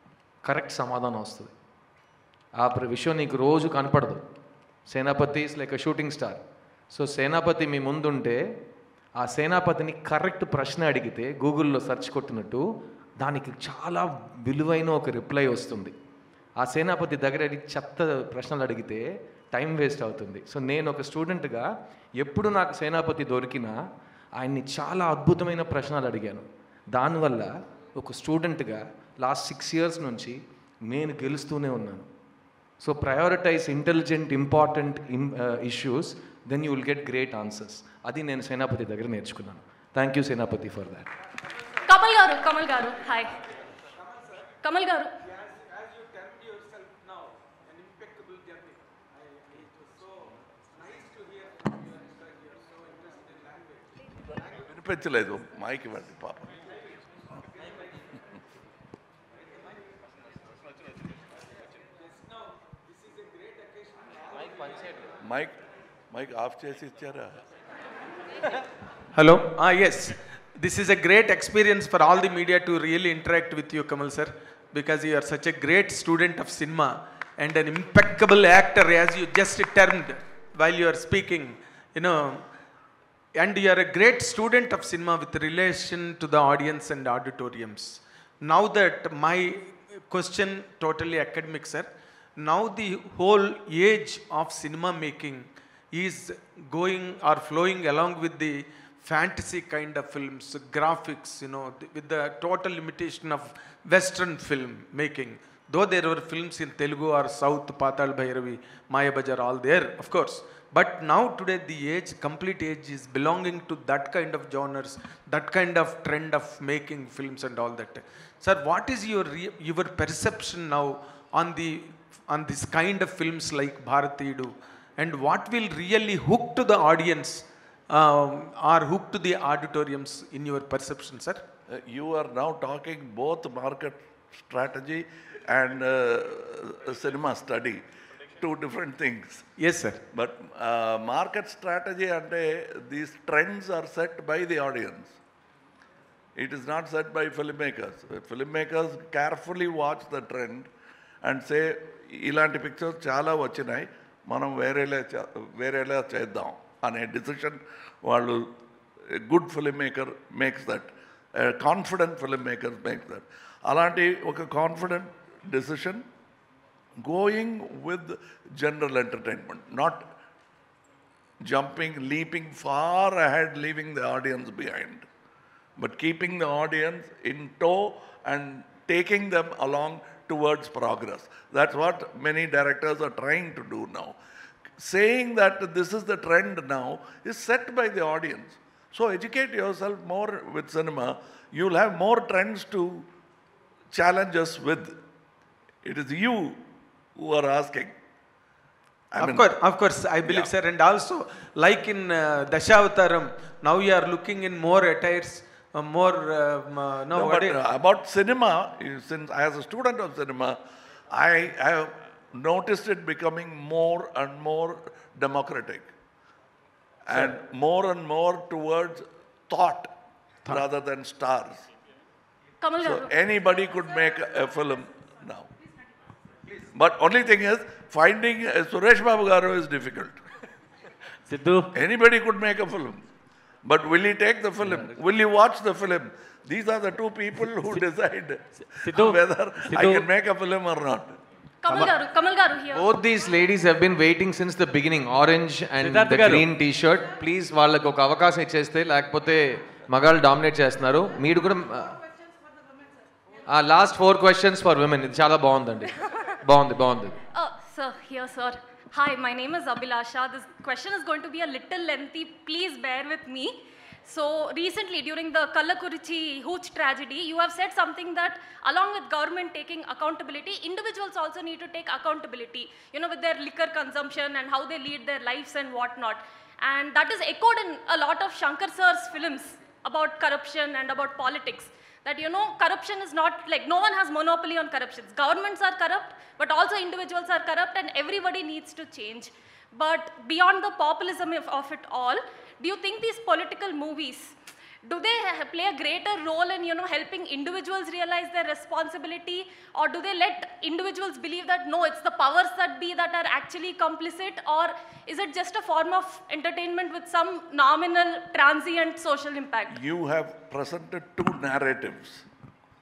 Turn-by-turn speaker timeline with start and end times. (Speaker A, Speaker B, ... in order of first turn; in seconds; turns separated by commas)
Speaker A: 0.4-1.5, Speaker A: 2.6-4.2, Speaker A: 4.9-6.4, Speaker A: 6.9-8.4, Speaker A: 9.2-12.6, Speaker A: 13.2-15.9, Speaker A: 16.6-21.7, Speaker A: 22.2-23.7, Speaker A: 24.4-30.4, Speaker A: 30.9-32.1, Speaker A: 32.8-41.1, Speaker B: 41.9-43.3, Speaker B: 44.6-45.1, Speaker C: 45.3-48.8, Speaker C: 49.5-50.2, Speaker C: 50.8-53.8, Speaker D: 54.7-56.6, Speaker D: 65.2-65.5, Speaker D: 66.1-67.4, Speaker C: 69.2-82.5, Speaker C: 83.4-131.4, Speaker D: 131.7-137.8, Speaker D: 138.4-139.4, Speaker C: 139.6-140.0, Speaker D: 140.1-145.2, Speaker D: 146.4-150.7, Speaker D: 151.2-151.6, Speaker D: 152.2-158.4, Speaker D: 159.3-166.0, Speaker D: 167.0-170.1, Speaker D: 171.4-175.1, Speaker D: 175.8-184.2, Speaker D: 184.8-193.1, Speaker D: 193.9-195.0, Speaker D: 195.8-196.6, Speaker D: 197.2-197.9, Speaker D: 199.1-199.5, Speaker C: 199.2-207.6, Speaker D: 200.2-200.5, Speaker D: 207.1-210.6, Speaker D: 211.1-215.9, Speaker D: 217.1-219.9, Speaker D: 220.5-221.6, Speaker B: 222.6-223.0, Speaker D: 222.8-225.5, Speaker D: 226.7-230.2, Speaker E: 231.3-231.7, Speaker D: 231.7-233.0, Speaker D: 233.7-241.2, Speaker E: 238.8-240.1, Speaker B: 241.6-242.9, Speaker A: 242.7-252.0, Speaker E: 245.8-246.5, Speaker A: 253.5-257.2, Speaker B: 257.3-294.3, Speaker B: 294.9-309.8, Speaker D: 309.7-312.2